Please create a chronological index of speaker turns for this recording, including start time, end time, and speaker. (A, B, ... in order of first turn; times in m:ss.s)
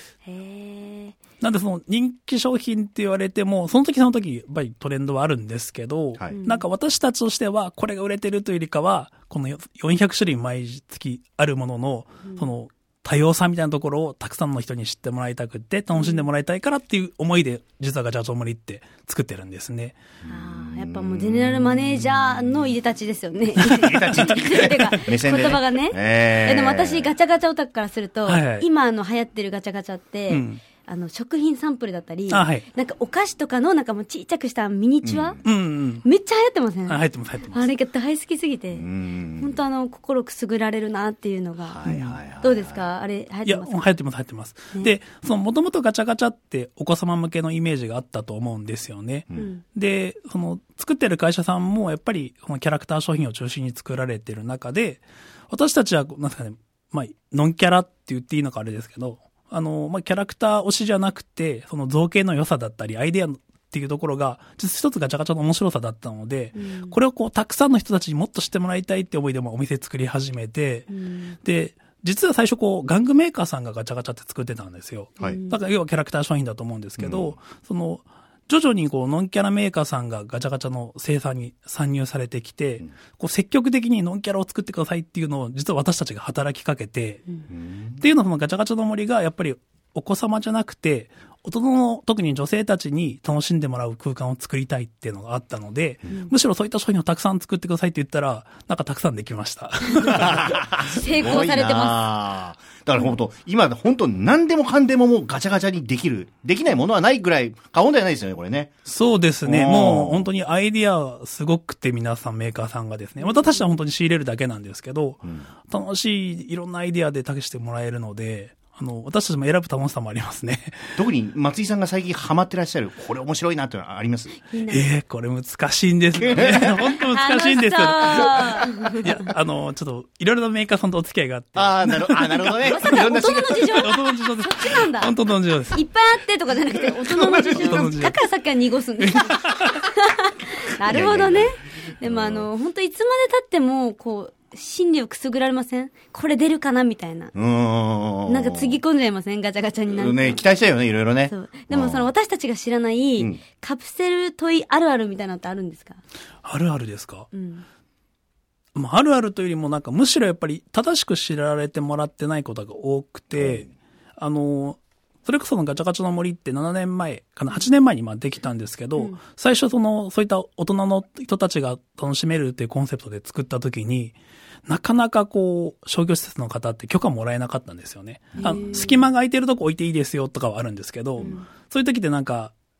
0:00.2-0:01.2 A
0:01.4-0:20.0 B
0:06.3-0:06.6 A
0:16.0-0:16.3 A
0:20.2-0:21.7 C
0:20.2-0:35.4 A
0:23.5-0:27.1 C
0:28.2-0:28.6 B
0:30.3-0:30.6 B
0:32.3-0:32.6 B
0:35.0-0:35.4 C
0:35.4-0:36.0 B
0:36.0-0:38.8 A
0:36.9-0:37.7 B
0:38.7-0:39.5 C
0:39.4-0:41.9 A
0:41.7-0:42.8 C
0:41.8-0:42.2 B
0:42.4-0:43.9 A
0:43.4-1:10.9 B
0:49.3-0:49.6 A
1:06.5-1:07.0 A
1:10.9-1:11.4 A
1:11.4-1:27.2 B
1:15.2-1:15.6 A
1:17.0-1:17.3 C
1:27.5-1:28.0 C
1:28.0-1:40.6 B
1:40.1-1:48.8 C
1:40.8-1:42.1 A
1:48.8-2:00.9 B
1:49.4-1:50.3 C
1:53.2-1:53.6 A
2:01.0-2:04.4 C
2:04.4-2:04.9 A
2:04.7-2:15.8 B
2:06.2-2:06.8 C
2:06.4-2:09.2 A
2:11.6-2:13.9 C
2:12.6-2:15.1 A
2:15.7-2:27.3 A
2:17.1-2:17.6 C
2:17.5-2:18.2 B
2:19.0-2:19.7 B
2:20.8-2:22.5 C
2:27.3-2:28.8 C
2:28.3-2:30.4 A
2:29.9-2:32.1 C
2:31.2-2:36.0 A
2:36.4-2:37.3 B
2:37.3-2:37.6 A
2:38.7-2:54.1 B
2:43.4-2:43.6 C
2:54.6-3:02.5 B
2:58.4-2:58.8 C
2:58.4-2:59.1 A
3:01.2-3:01.5 A